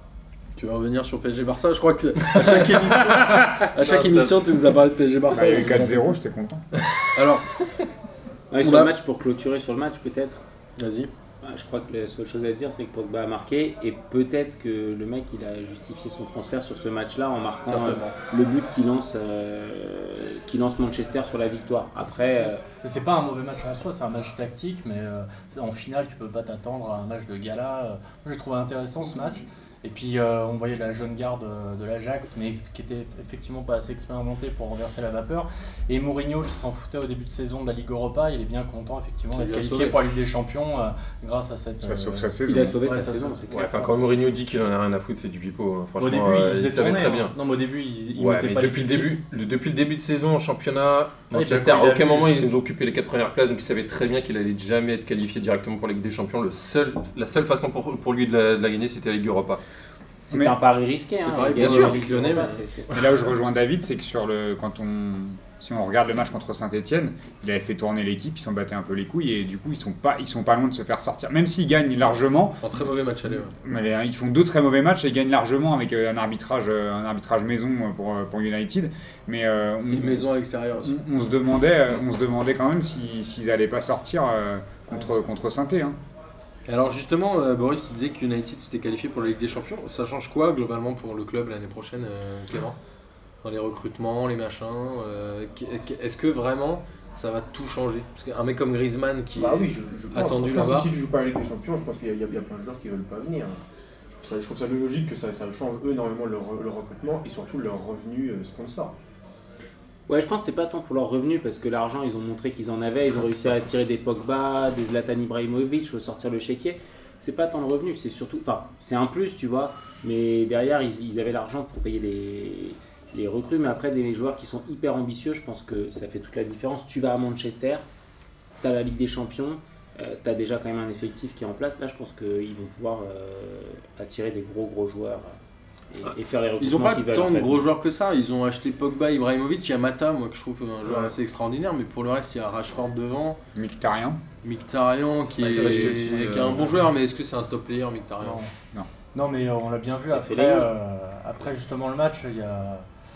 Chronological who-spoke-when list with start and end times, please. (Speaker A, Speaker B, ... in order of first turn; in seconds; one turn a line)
Speaker A: 0.6-6.1
Speaker B: 2.6-3.3
Speaker C: 3.8-4.4
Speaker D: 5.3-6.7
Speaker A: 7.0-7.8
Speaker E: 8.5-10.4
Speaker A: 8.6-8.9
Speaker A: 10.8-11.1
Speaker E: 11.4-22.6
Speaker A: 17.7-18.2
Speaker B: 22.0-43.5
Speaker A: 39.3-40.0
Speaker D: 41.8-42.8
Speaker E: 42.5-44.0
Speaker C: 43.5-47.4
Speaker B: 46.0-49.2
Speaker C: 48.1-59.6
Speaker B: 51.3-52.3
Speaker E: 60.3-63.2
Speaker D: 60.3-60.6
Speaker A: 61.2-62.6
Speaker C: 61.5-62.0
Speaker D: 62.9-72.8
Speaker A: 72.6-73.5
Speaker D: 73.5-80.3
Speaker A: 79.9-81.0
Speaker D: 80.8-86.0
Speaker A: 86.7-92.8
Speaker A: 93.4-100.9
Speaker F: 99.4-103.6
Speaker F: 104.1-108.9
Speaker E: 110.1-127.8
Speaker E: 128.6-135.3
Speaker E: 135.9-137.7
Speaker A: 136.6-143.4
Speaker D: 143.6-144.2
Speaker A: 144.4-148.4
Speaker C: 145.4-146.7
Speaker D: 145.6-146.6
Speaker B: 148.2-148.5
Speaker B: 149.2-152.9
Speaker E: 150.1-150.7